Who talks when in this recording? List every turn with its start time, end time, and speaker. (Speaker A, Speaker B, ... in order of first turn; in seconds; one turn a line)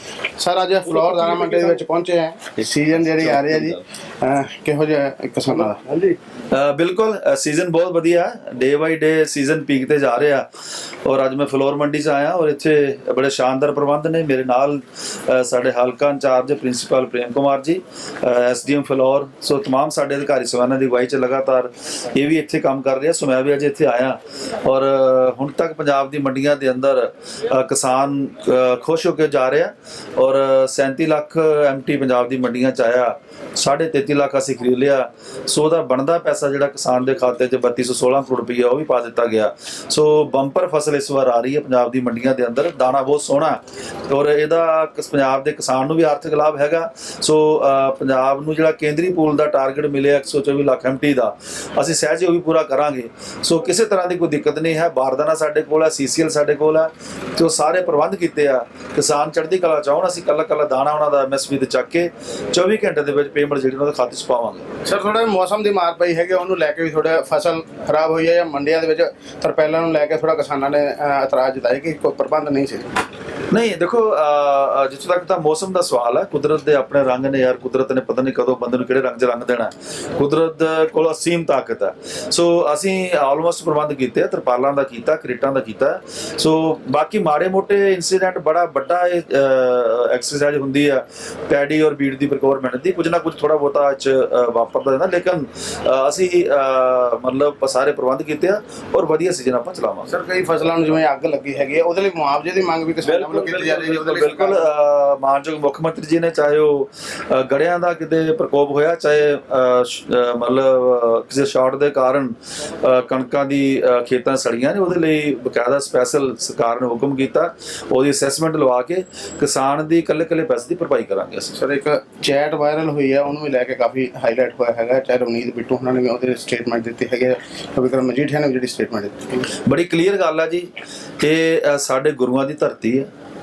Speaker A: 0.4-5.9
Speaker B: 0.9-1.7
Speaker B: 3.0-3.8
Speaker B: 6.5-10.4
Speaker B: 11.1-64.7
Speaker A: 64.8-72.9
Speaker B: 73.5-100.1
Speaker A: 100.1-104.7
Speaker B: 103.0-121.5
Speaker A: 121.5-129.5
Speaker B: 129.7-133.1